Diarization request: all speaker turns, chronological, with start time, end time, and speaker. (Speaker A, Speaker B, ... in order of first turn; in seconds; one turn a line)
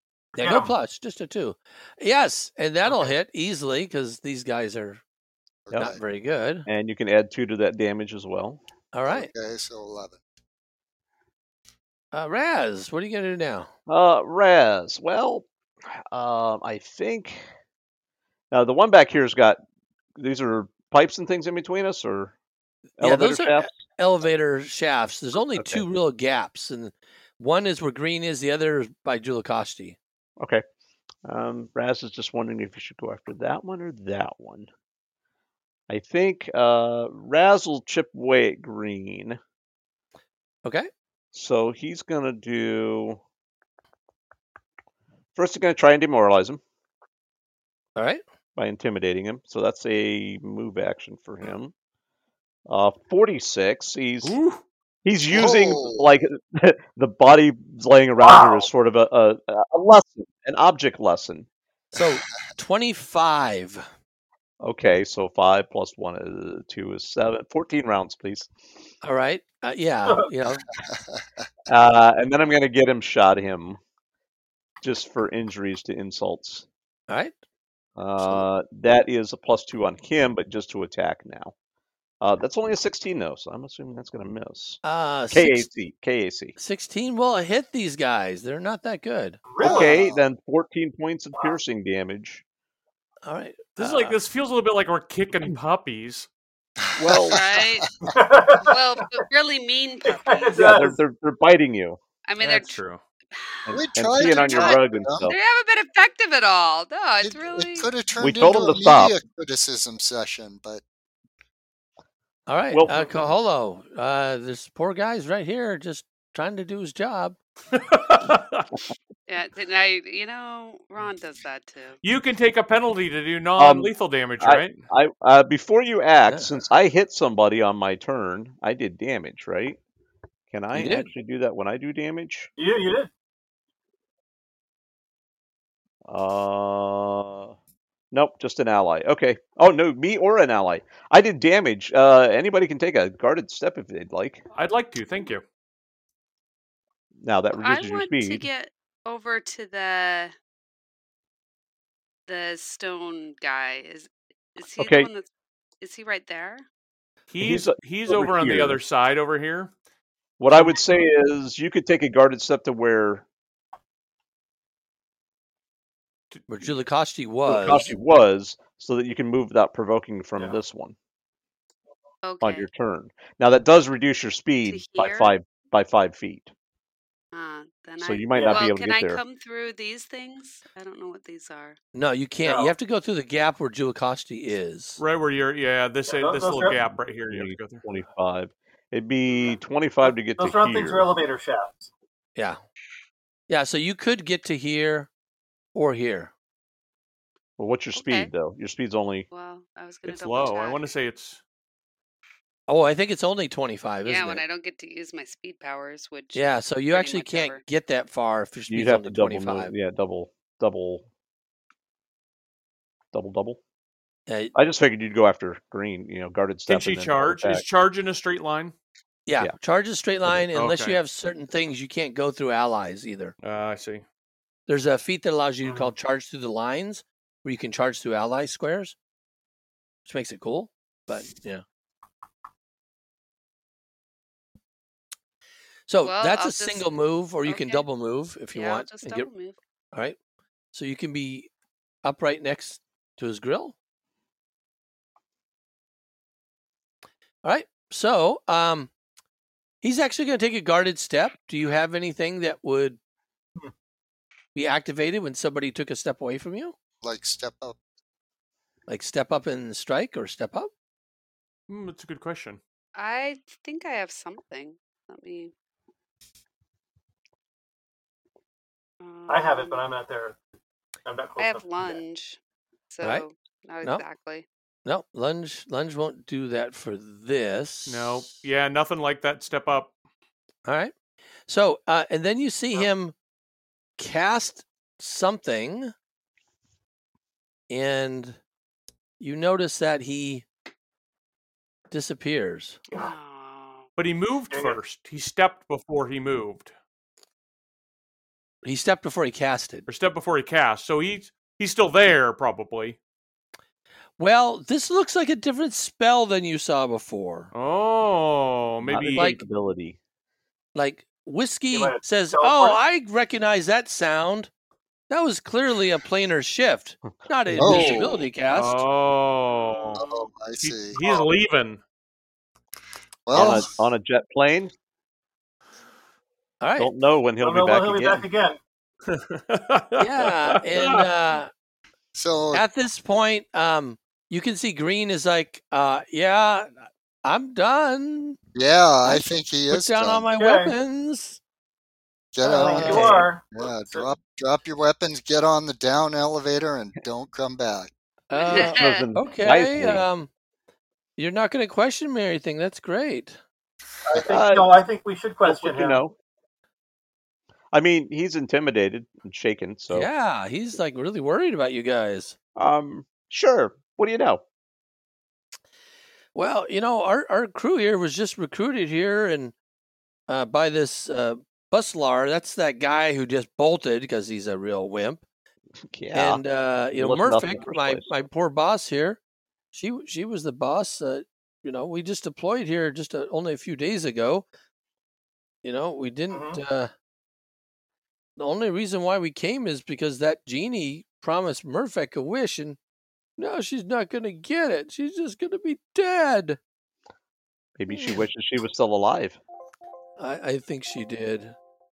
Speaker A: 0.3-5.0
Speaker B: 0.4-0.7
Speaker C: 5.7-6.0
Speaker A: 5.7-6.7
Speaker D: 6.7-8.6
Speaker A: 8.9-9.3
Speaker C: 9.1-10.2
Speaker A: 12.1-13.7
Speaker D: 13.9-15.5
Speaker D: 16.1-17.4
Speaker D: 18.5-19.6
Speaker D: 20.2-22.3
Speaker D: 23.0-23.8
Speaker A: 23.0-30.0
Speaker D: 25.6-25.8
Speaker D: 30.4-30.6
Speaker D: 31.2-34.7
Speaker D: 35.9-39.4
Speaker D: 41.3-43.2
Speaker D: 45.4-46.6
Speaker A: 48.0-48.2
Speaker D: 48.5-51.7
Speaker D: 52.7-54.4
Speaker E: 54.2-54.6
Speaker D: 55.0-61.5
Speaker C: 55.3-56.1
Speaker B: 58.2-58.7
Speaker A: 61.9-63.9
Speaker D: 64.6-68.5
Speaker A: 69.0-70.7
Speaker C: 70.8-71.2
Speaker D: 71.7-73.8
Speaker D: 74.8-76.7
Speaker D: 78.0-81.5
Speaker A: 78.2-78.5
Speaker D: 82.2-86.5
Speaker A: 84.8-85.7
Speaker A: 86.6-89.6
Speaker B: 89.5-90.2
Speaker D: 89.6-92.4
Speaker A: 93.2-94.2
Speaker E: 93.8-96.3
Speaker D: 97.0-97.6
Speaker C: 97.0-98.1
Speaker F: 97.3-97.9
Speaker B: 98.1-99.0
Speaker F: 98.7-100.6
Speaker B: 100.0-101.0
Speaker D: 100.5-102.0
Speaker F: 102.2-107.9
Speaker E: 102.4-103.0
Speaker C: 103.7-105.3
Speaker D: 103.7-105.4
Speaker C: 107.2-110.8
Speaker D: 108.2-109.1
Speaker A: 112.5-117.4
Speaker D: 112.7-113.2
Speaker E: 117.7-118.7
Speaker F: 119.3-122.0
Speaker E: 122.0-124.8
Speaker D: 123.6-129.8
Speaker D: 130.5-132.5
Speaker A: 130.7-131.1
Speaker B: 132.6-133.1
Speaker D: 136.1-137.5
Speaker D: 138.1-144.4
Speaker E: 144.5-145.4
Speaker D: 147.2-148.5
Speaker F: 147.6-150.3
Speaker F: 152.3-155.2
Speaker D: 154.8-155.1
Speaker F: 155.8-156.6
Speaker E: 157.3-159.7
Speaker D: 157.4-158.8
Speaker D: 160.4-163.2
Speaker E: 166.3-166.7
Speaker A: 166.5-167.9
Speaker D: 167.5-170.9
Speaker F: 172.2-172.7
Speaker D: 172.4-176.5
Speaker F: 174.7-175.3
Speaker F: 177.3-181.8
Speaker D: 178.0-179.2
Speaker B: 178.3-178.7
Speaker A: 181.9-185.0
Speaker B: 182.4-182.7
Speaker E: 185.0-187.8
Speaker B: 186.1-186.8
Speaker D: 186.7-191.1
Speaker B: 190.0-191.9
Speaker A: 192.3-192.6
Speaker A: 193.5-195.1
Speaker A: 195.7-196.3
Speaker D: 197.6-199.3
Speaker F: 197.9-198.3
Speaker F: 199.3-200.9
Speaker E: 200.0-201.4
Speaker A: 202.7-204.4
Speaker F: 204.0-207.6
Speaker A: 206.3-209.7
Speaker D: 208.7-211.1
Speaker D: 213.1-213.6
Speaker A: 214.3-214.5
Speaker D: 214.5-217.6
Speaker E: 216.7-218.7
Speaker A: 219.2-223.3
Speaker E: 220.5-221.0
Speaker E: 223.4-224.0
Speaker A: 224.7-228.9
Speaker B: 225.6-225.9
Speaker A: 230.1-231.6
Speaker A: 235.9-239.3
Speaker F: 236.0-237.9
Speaker F: 238.5-239.6
Speaker A: 240.7-241.5
Speaker A: 242.0-243.7
Speaker A: 247.4-248.9
Speaker A: 249.8-253.0
Speaker A: 254.5-256.7
Speaker C: 257.0-257.8
Speaker A: 258.9-260.7
Speaker E: 261.7-262.6
Speaker F: 262.9-265.5
Speaker F: 269.0-269.8
Speaker B: 269.3-270.4
Speaker B: 271.0-272.0
Speaker F: 271.4-272.4
Speaker F: 272.9-274.4
Speaker A: 274.8-278.3
Speaker E: 277.9-279.9
Speaker A: 280.6-280.9
Speaker A: 281.5-283.1
Speaker A: 284.0-285.9
Speaker A: 287.7-288.4
Speaker A: 289.2-290.4
Speaker A: 291.9-292.8
Speaker F: 292.9-293.8
Speaker E: 294.0-296.7
Speaker B: 294.5-294.8
Speaker A: 298.6-299.9
Speaker E: 299.9-303.0
Speaker A: 304.2-307.5
Speaker E: 307.5-309.4
Speaker D: 308.8-310.0
Speaker A: 309.1-309.4
Speaker A: 310.7-314.5
Speaker B: 311.7-312.8
Speaker A: 315.1-318.8
Speaker D: 317.5-317.9
Speaker C: 317.5-318.1
Speaker B: 317.7-318.2
Speaker E: 318.5-320.0
Speaker B: 319.8-320.3
Speaker C: 319.9-321.0
Speaker E: 320.6-321.8
Speaker B: 320.9-321.3
Speaker C: 323.2-323.7
Speaker D: 323.3-324.7
Speaker A: 326.6-326.9
Speaker D: 326.8-328.3
Speaker B: 327.4-328.6
Speaker E: 329.1-331.0
Speaker A: 330.0-331.5
Speaker C: 332.1-332.6
Speaker A: 332.5-336.7
Speaker A: 337.2-338.4
Speaker C: 338.5-340.3
Speaker A: 339.0-341.4
Speaker B: 340.4-340.8
Speaker C: 342.3-347.9
Speaker A: 342.4-343.3
Speaker B: 342.4-344.1
Speaker A: 348.3-350.3
Speaker F: 348.4-349.3
Speaker D: 348.6-350.0
Speaker A: 351.2-353.4
Speaker B: 354.1-356.0
Speaker D: 354.2-354.7
Speaker D: 355.4-356.1
Speaker D: 357.7-360.1
Speaker A: 359.9-362.4
Speaker D: 362.6-364.4
Speaker A: 366.3-369.5
Speaker A: 370.3-375.2
Speaker D: 375.8-376.4
Speaker A: 376.1-379.2
Speaker D: 376.9-378.1
Speaker A: 379.7-384.4
Speaker A: 385.6-386.9
Speaker B: 386.3-386.6
Speaker A: 388.4-392.8
Speaker A: 393.4-396.6
Speaker D: 397.8-399.4
Speaker F: 397.9-398.2
Speaker A: 400.2-401.6